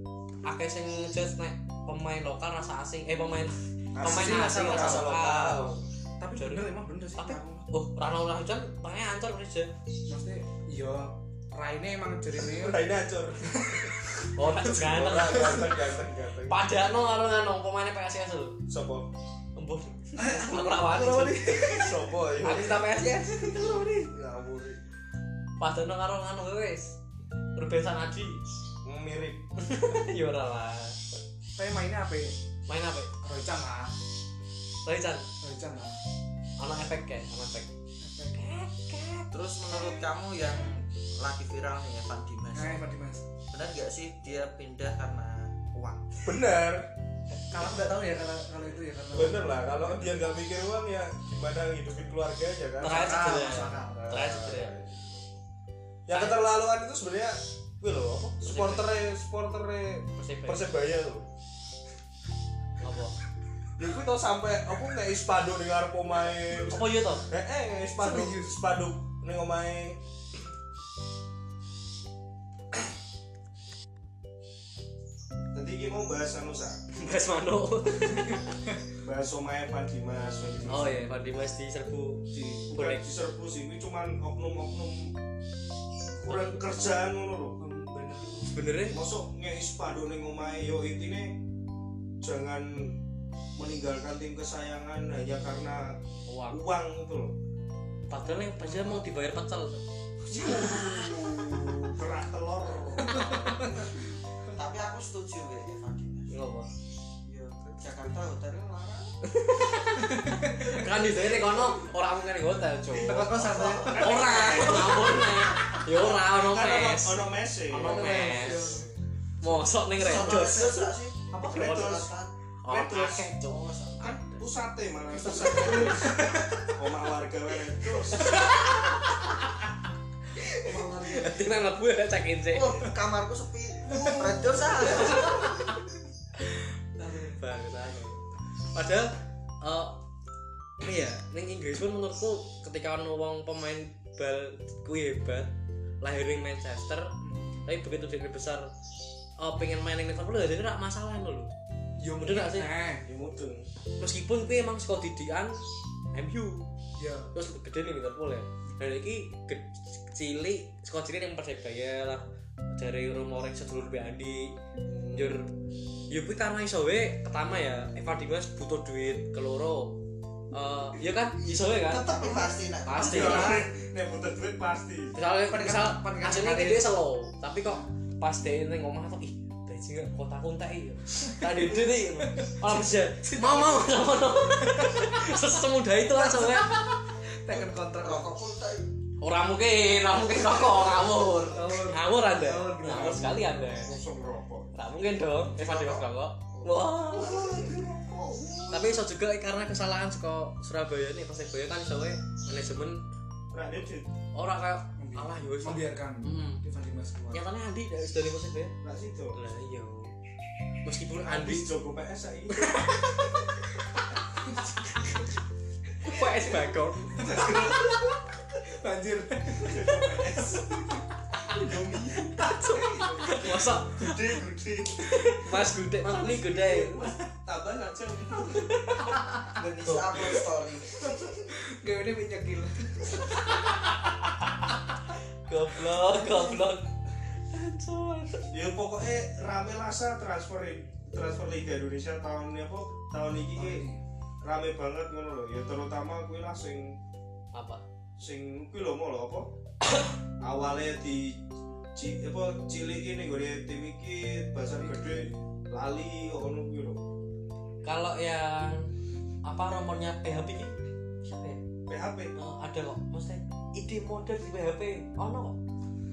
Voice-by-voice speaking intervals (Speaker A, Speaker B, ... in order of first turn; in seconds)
Speaker A: 0.5-5.8, 6.3-9.7, 14.3-15.7, 16.5-18.6, 19.6-23.9, 25.6-27.0, 27.6-28.4, 29.6-31.0, 32.7-33.1, 34.8-35.3, 36.6-37.7, 38.3-39.3, 52.8-54.8, 56.1-56.4, 58.4-58.9, 60.2-60.7, 62.8-63.1, 66.6-67.3, 76.9-78.5, 80.7-83.1, 86.3-86.6, 88.5-89.0, 96.3-96.6, 98.1-99.8, 100.5-100.8, 106.3-106.7, 109.2-113.3, 113.9-118.8, 119.4-122.0, 122.6-124.2, 128.1-129.3, 130.9-132.8, 135.1-135.5, 137.3-138.1, 138.7-140.0, 140.8-147.1, 147.7-148.7, 149.4-151.5, 152.0-152.7, 154.0-155.6, 156.1-156.7, 157.3-164.6, 165.1-165.5, 166.1-170.0, 170.5-172.3, 172.8-173.6, 175.2-186.8, 189.2-193.9, 194.7-197.5, 198.7-203.0, 204.3-206.6, 207.3-208.8, 209.3-210.1, 210.8-211.7, 212.6-213.3, 214.6-215.2, 216.0-217.4, 222.3-224.3, 225.0-227.0, 228.4-229.2, 229.8-230.4, 233.6-234.7, 235.4-236.9, 237.5-238.5, 247.5-247.8, 249.8-250.1, 257.8-258.9, 259.4-261.6, 262.4-265.6
Speaker B: 3.9-5.8, 12.6-16.7, 18.7-19.1, 21.7-23.1, 24.0-24.8, 28.8-29.4, 46.1-46.9, 49.1-55.4, 56.1-61.3, 63.8-70.0, 75.5-76.8, 79.0-81.1, 82.3-85.2, 86.2-87.6, 88.8-91.4, 92.2-93.0, 93.6-97.4, 100.3-103.7, 107.3-107.8, 112.8-119.0, 120.0-122.1, 122.7-123.3, 124.0-128.4, 137.9-138.2, 153.1-153.7, 164.8-165.4, 172.9-175.2, 192.8-194.8, 196.5-199.1, 203.5-204.1, 208.8-209.4, 211.2-212.9, 217.2-218.0, 219.6-220.8, 221.6-222.4, 223.3-225.4, 226.6-228.9, 238.5-243.9, 244.4-247.0, 248.2-249.5, 250.4-251.4, 251.9-257.0, 261.9-262.4
Speaker C: 4.0-5.2, 6.2-7.7, 10.1-12.9, 13.5-13.9, 15.2-15.7, 20.2-22.0, 23.0-24.0, 31.6-32.4, 33.2-34.0, 35.4-36.0, 38.0-38.4, 42.5-43.2, 47.5-50.0, 52.8-54.2, 68.0-68.5, 87.6-88.6, 98.2-99.1, 103.0-103.8, 110.0-110.9, 113.0-115.3, 117.8-118.9, 125.2-126.8, 128.3-129.0, 130.5-131.4, 133.9-135.7, 137.0-137.4, 147.2-147.7, 152.1-153.1, 157.0-157.3, 172.2-173.7, 175.5-176.9, 181.3-185.2, 186.1-188.4, 191.5-193.6, 205.0-207.4, 216.1-218.2, 218.7-221.0, 221.5-223.7, 226.0-227.1, 231.0-234.0, 236.1-236.6, 243.6-244.0
Speaker D: 39.3-42.9, 43.5-45.7, 104.5-106.3, 107.8-109.1, 113.3-114.8, 120.0-122.3, 123.4-124.3, 132.5-135.6, 171.7-173.6, 187.5-188.9, 195.6-196.0, 229.6-231.2